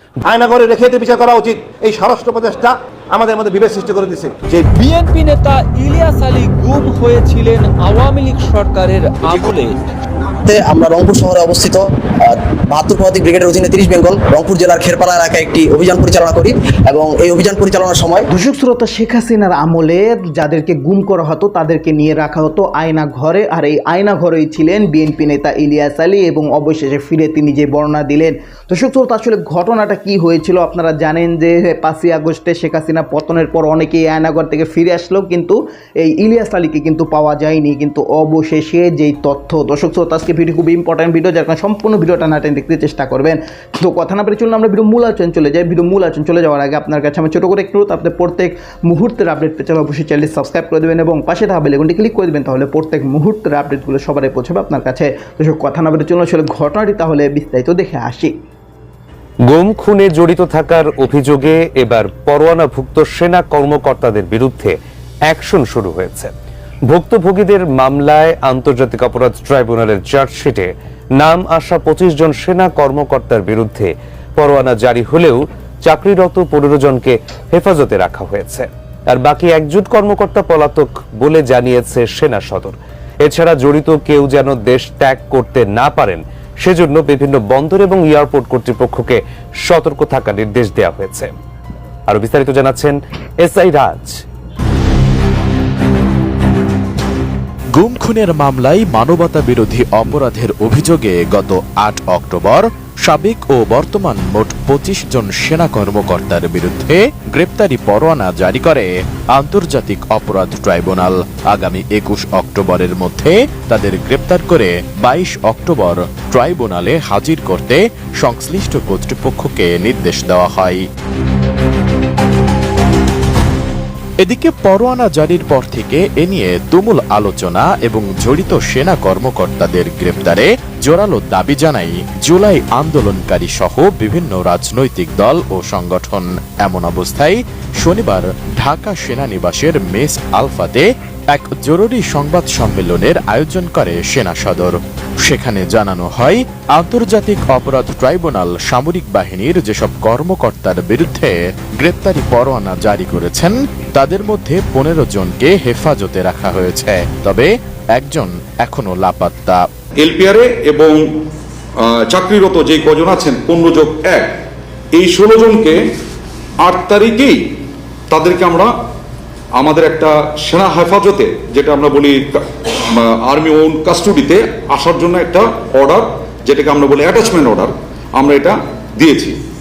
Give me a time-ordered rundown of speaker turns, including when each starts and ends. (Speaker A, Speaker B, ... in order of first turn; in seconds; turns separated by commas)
Speaker A: 0.2-4.7, Speaker B: 4.7-9.7, Speaker C: 10.4-18.2, Speaker D: 18.3-58.4, Speaker E: 59.5-64.8, Speaker E: 65.3-66.3, Speaker E: 66.9-91.3, Speaker E: 92.1-94.2, Speaker F: 97.7-120.8, Speaker F: 124.2-159.7, Speaker G: 160.0-161.0, Speaker G: 161.8-164.3, Speaker G: 164.9-165.8, Speaker G: 166.6-167.4, Speaker G: 168.1-168.7, Speaker G: 169.6-172.4, Speaker G: 172.9-179.4